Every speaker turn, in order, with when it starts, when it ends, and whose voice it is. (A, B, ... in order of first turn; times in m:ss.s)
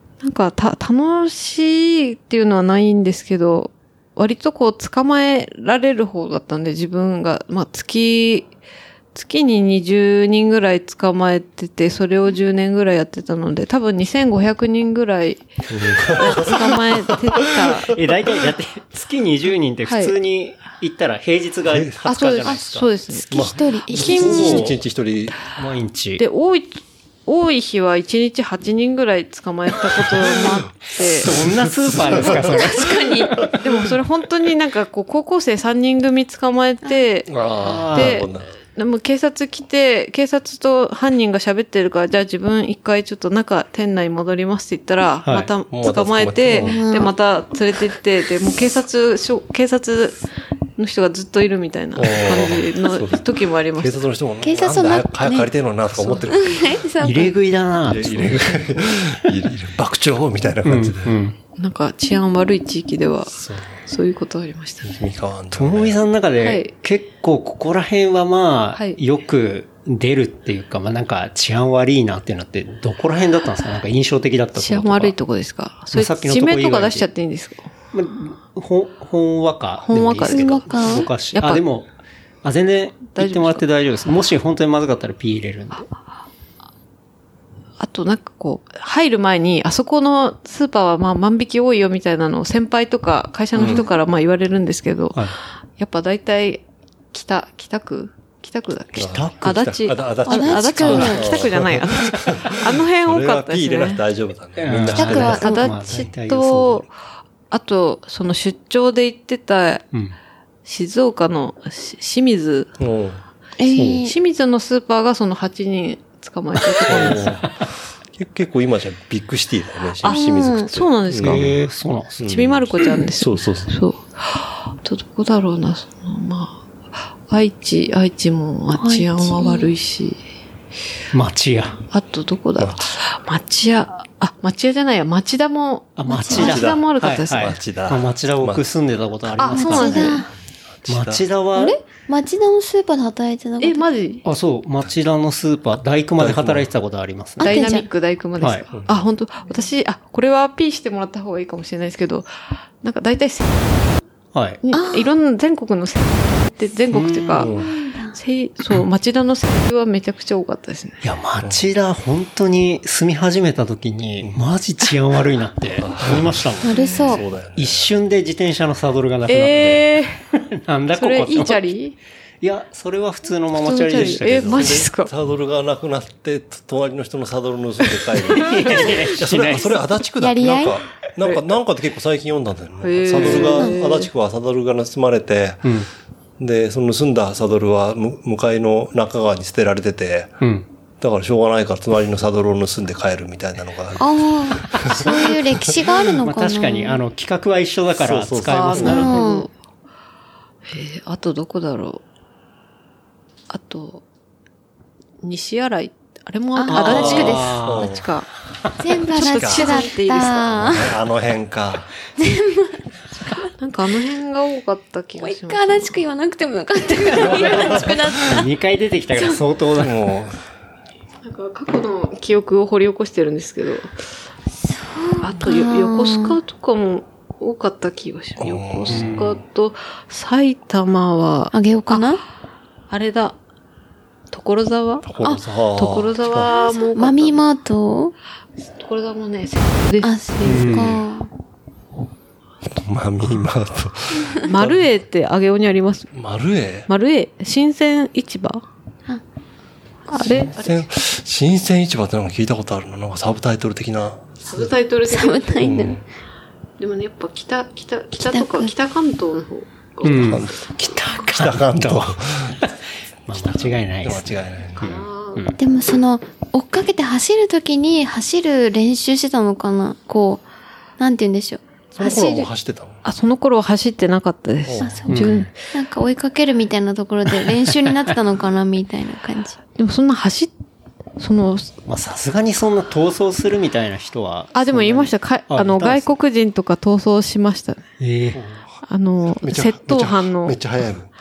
0:00.2-0:08.5 A
0:09.1-0:15.5 A
0:15.7-0:17.9 B
0:15.8-0:16.1 C
0:16.1-0:18.0 A
0:17.9-0:22.9 C
0:19.9-0:20.1 A
0:21.7-0:22.0 B
0:22.0-0:24.6 A
0:23.1-0:24.6 D
0:23.3-0:25.4 B
0:24.0-0:24.8 C
0:25.4-0:26.2 C
0:26.2-0:31.4 A
0:31.1-0:33.6 C
0:31.4-0:32.6 B
0:32.2-0:33.5 D
0:33.5-0:50.2 A
0:37.3-0:38.5 B
0:37.6-0:38.2 C
0:45.7-0:46.8 B
0:46.6-0:47.1 D
0:50.8-0:54.0 A
0:52.0-0:56.8 B
0:54.4-0:55.5 D
0:56.1-0:57.4 D
0:57.0-0:59.3 C
0:57.8-1:01.2 B
1:00.6-1:01.4 C
1:01.6-1:05.0 A
1:03.3-1:03.8 B
1:04.8-1:06.0 B
1:05.5-1:15.1 C
1:06.4-1:06.7 A
1:14.6-1:17.7 A
1:15.9-1:17.1 C
1:17.9-1:21.9 C
1:19.8-1:21.6 A
1:20.2-1:21.1 D
1:22.4-1:25.9 C
1:23.1-1:23.6 A
1:27.8-1:35.2 A
1:33.6-1:33.8 B
1:33.6-1:33.9 D
1:35.8-1:44.0 A
1:39.0-1:45.4 B
1:39.0-1:39.5 C
1:40.3-1:41.4 D
1:40.8-1:41.4 C
1:44.6-1:46.9 C
1:44.9-1:45.7 D
1:45.0-1:46.9 A
1:47.5-1:49.9 A
1:50.6-1:52.7 A
1:52.8-1:53.2 B
1:53.6-1:54.1 D
1:53.8-1:57.4 A
1:56.8-1:57.5 C
1:56.9-2:01.5 B
2:00.0-2:01.5 A
2:00.0-2:00.7 D
2:01.2-2:02.2 C
2:02.2-2:03.7 B
2:02.2-2:10.2 A
2:08.7-2:09.7 D
2:11.1-2:11.8 C
2:11.9-2:17.6 A
2:12.6-2:12.9 B
2:16.0-2:20.2 C
2:16.1-2:16.6 D
2:16.3-2:18.6 B
2:19.4-2:20.3 A
2:19.5-2:20.3 D
2:20.8-2:21.3 B
2:20.9-2:21.8 C
2:21.6-2:23.9 D
2:23.6-2:24.2 A
2:24.2-2:27.6 C
2:26.2-2:26.7 B
2:27.4-2:27.9 D
2:27.4-2:32.3 A
2:28.7-2:29.0 B
2:32.8-2:33.7 A
2:34.3-2:34.6 C
2:34.6-2:41.0 A
2:34.7-2:35.1 D
2:36.9-2:37.5 C
2:37.4-2:37.7 B
2:37.6-2:38.2 D
2:41.0-2:46.8 C
2:45.7-2:47.9 B
2:46.6-2:47.2 D
2:46.7-2:47.2 A
2:47.6-2:51.7 C
2:49.3-2:50.2 A
2:51.0-2:52.0 A
2:52.4-2:54.8 C
2:53.6-2:55.1 A
2:54.2-3:05.7 B
2:58.1-2:58.8 A
2:58.4-2:59.8 C
3:00.2-3:00.8 D
3:02.8-3:04.1 A
3:03.1-3:03.5 C
3:05.6-3:05.9 C
3:06.4-3:10.4 B
3:10.4-3:10.7 C
3:11.0-3:15.9 B
3:14.0-3:17.0 D
3:16.2-3:19.2 C
3:18.0-3:19.2 B
3:18.4-3:19.5 A
3:18.8-3:19.5 D
3:20.7-3:22.0 A
3:23.5-3:24.0 A
3:25.2-3:28.3 A
3:26.6-3:27.6 D
3:26.7-3:27.9 C
3:26.9-3:28.1 B
3:28.8-3:31.0 D
3:29.1-3:30.5 A
3:29.2-3:31.9 B
3:32.2-3:33.5 D
3:33.6-3:36.0 A
3:35.2-3:38.5 D
3:37.2-3:40.0 C
3:37.3-3:37.7 A
3:37.5-3:37.9 B
3:39.7-3:40.4 B
3:41.2-3:43.9 A
3:44.6-3:46.4 D
3:45.2-3:52.2 A
3:48.4-3:49.1 B
3:48.9-3:49.4 C
3:51.5-3:52.2 D
3:52.9-3:53.4 A
3:54.3-3:55.1 A
3:55.0-3:56.5 B
3:55.7-3:57.4 A
3:56.4-3:58.1 D
3:58.8-4:01.0 A
4:00.0-4:01.3 D
4:00.4-4:01.0 C
4:02.7-4:04.9 B
4:04.4-4:06.1 A
4:06.1-4:06.9 B
4:06.9-4:08.6 A
4:10.1-4:10.9 A
4:10.2-4:14.7 B
4:14.4-4:15.7 A
4:15.1-4:16.0 D
4:15.6-4:16.0 B
4:16.8-4:20.5 A
4:18.2-4:18.7 D
4:20.0-4:25.6 C
4:20.1-4:22.6 B
4:23.4-4:25.0 B
4:24.8-4:25.5 A
4:25.6-4:30.4 D
4:31.0-4:32.5 D
4:32.0-4:33.0 B
4:33.0-4:35.5 A
4:34.6-4:35.1 B
4:34.8-4:39.6 D
4:35.1-4:35.5 C
4:39.8-4:40.5 A
4:41.2-4:41.7 A
4:41.9-4:46.1 C
4:44.5-4:47.9 A
4:48.0-4:48.4 C
4:48.4-4:48.7 B
4:48.9-4:50.6 A
4:49.3-4:51.1 B